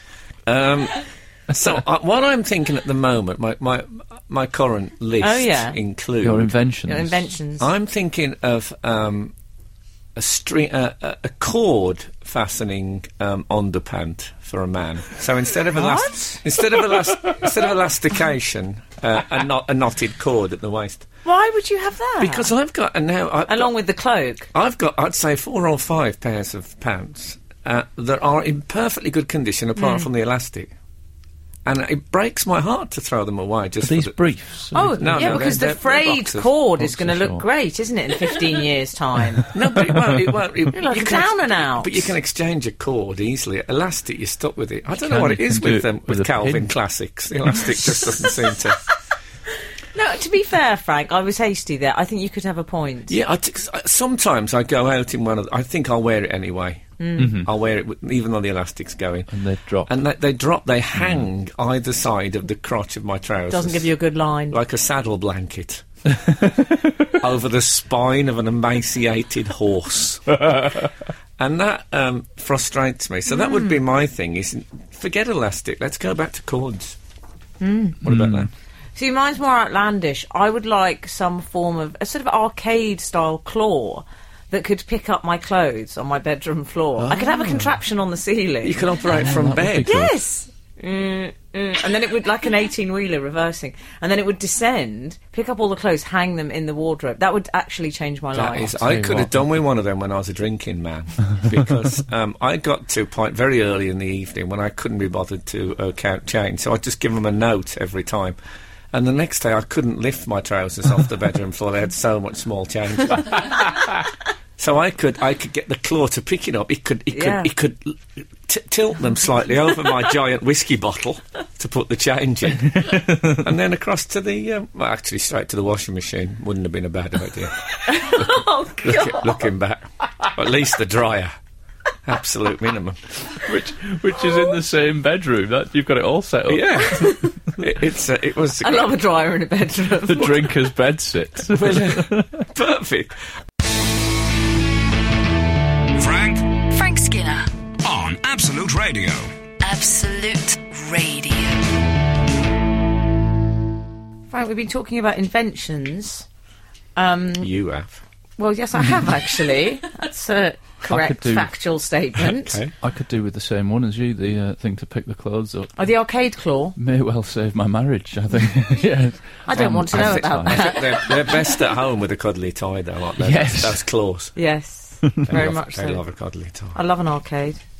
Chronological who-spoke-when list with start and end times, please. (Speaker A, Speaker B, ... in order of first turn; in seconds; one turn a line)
Speaker A: 0.5-6.5
Speaker B: 5.2-5.8
Speaker C: 6.2-7.3
Speaker B: 6.9-7.7
Speaker A: 7.6-9.3
Speaker A: 10.2-21.1
Speaker B: 15.7-16.4
Speaker B: 21.2-22.5
Speaker A: 22.2-23.7
Speaker B: 23.5-24.5
Speaker A: 24.5-30.7
Speaker B: 29.8-30.1
Speaker A: 31.6-34.2
Speaker C: 33.8-35.6
Speaker B: 34.7-39.5
Speaker A: 35.0-36.5
Speaker C: 36.8-37.4
Speaker A: 39.5-48.8
Speaker C: 39.8-40.2
Speaker B: 40.7-42.1
Speaker C: 44.9-46.7
Speaker B: 49.9-53.1
Speaker A: 53.1-59.3
Speaker B: 57.0-57.4
Speaker C: 57.2-57.5
Speaker C: 59.3-59.9
Speaker A: 59.9-63.9
Speaker B: 63.5-64.6
Speaker A: 64.5-65.8
Speaker C: 66.2-67.1
Speaker A: 67.1-70.7
Speaker A: 71.4-77.0
Speaker B: 73.3-73.7
Speaker B: 77.6-78.0
Speaker A: 78.0-78.5
Speaker C: 78.0-78.5
Speaker B: 79.0-88.9
Speaker A: 87.0-87.7
Speaker A: 88.6-89.9
Speaker C: 89.1-90.1
Speaker B: 89.8-98.8
Speaker A: 98.3-108.4
Speaker C: 98.8-99.3
Speaker A: 108.9-113.6
Speaker A: 114.6-131.3
Speaker B: 117.1-117.5
Speaker C: 122.6-123.5
Speaker B: 127.9-129.4
Speaker A: 132.1-133.1
Speaker C: 133.4-136.9
Speaker A: 136.5-138.9
Speaker B: 136.8-137.4
Speaker B: 138.6-140.5
Speaker C: 140.1-142.4
Speaker A: 141.5-143.2
Speaker D: 145.9-146.6
Speaker E: 146.7-147.5
Speaker D: 147.8-149.3
Speaker E: 149.6-151.7
Speaker B: 154.3-156.3
Speaker B: 156.9-157.5
Speaker A: 157.4-158.0
Speaker B: 158.4-162.6
Speaker C: 160.8-161.5
Speaker A: 162.2-162.7
Speaker C: 162.8-165.8
Speaker B: 165.8-166.8
Speaker C: 166.8-170.8
Speaker B: 169.4-171.3
Speaker A: 169.5-174.3
Speaker C: 173.2-173.8
Speaker B: 174.3-176.0
Speaker A: 175.2-176.8
Speaker B: 176.7-177.6